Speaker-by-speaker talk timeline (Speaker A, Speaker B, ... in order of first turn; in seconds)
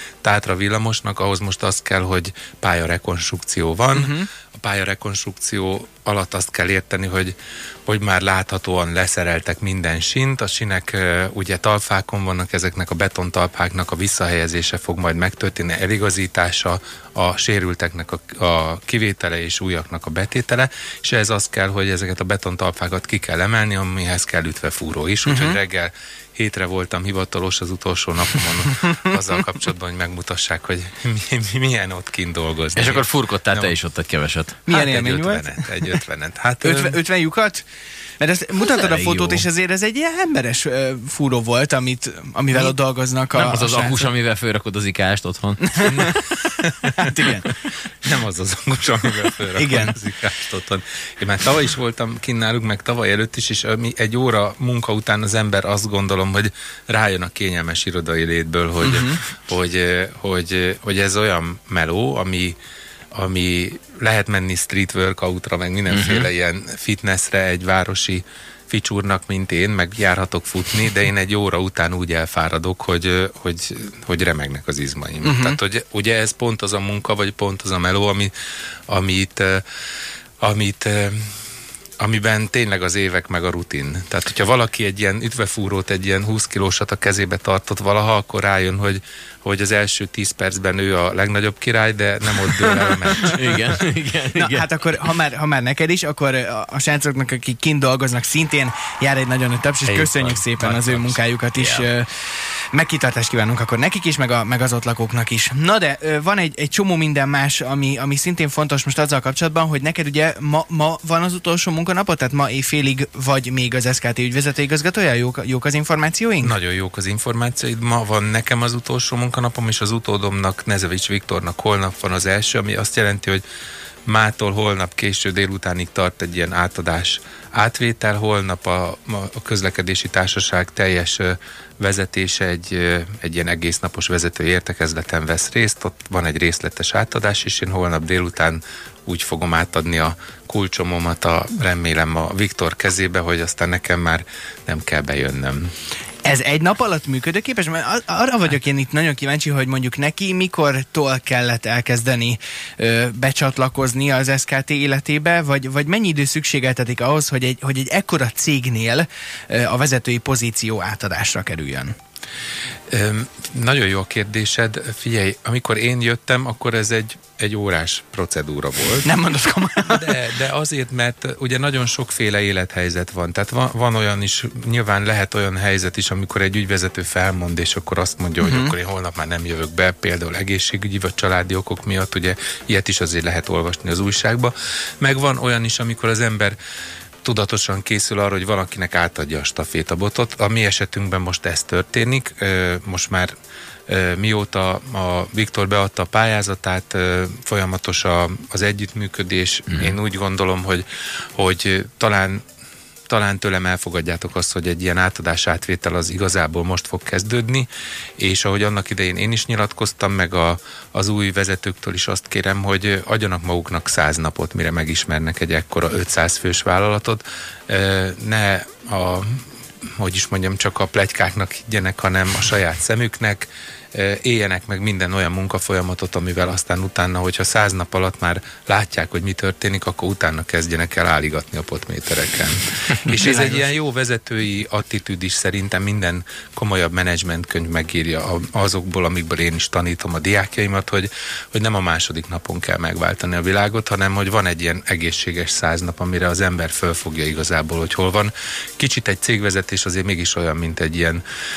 Speaker A: 0.2-7.3, 7.9-33.8, 34.7-37.0, 45.8-47.4, 48.0-62.6, 63.1-78.3, 78.9-79.6, 80.4-81.3, 82.0-93.6, 99.9-101.2, 116.4-123.4, 124.1-145.7, 162.9-169.1, 169.9-186.6, 187.2-193.3, 193.9-200.8, 201.4-202.4, 203.1-207.7, 208.2-251.2
Speaker B: 3.9-4.3, 25.3-25.6, 34.7-35.7, 36.6-37.7, 38.2-44.0, 45.7-46.1, 47.0-47.5, 49.6-50.0, 58.8-59.2, 75.2-75.6, 94.3-102.1, 102.7-116.5, 146.2-161.9, 169.0-170.1, 178.4-178.7, 233.3-233.6
Speaker C: 32.8-34.6, 38.6-39.5, 43.3-46.2, 65.9-66.3, 93.2-94.7, 101.6-101.9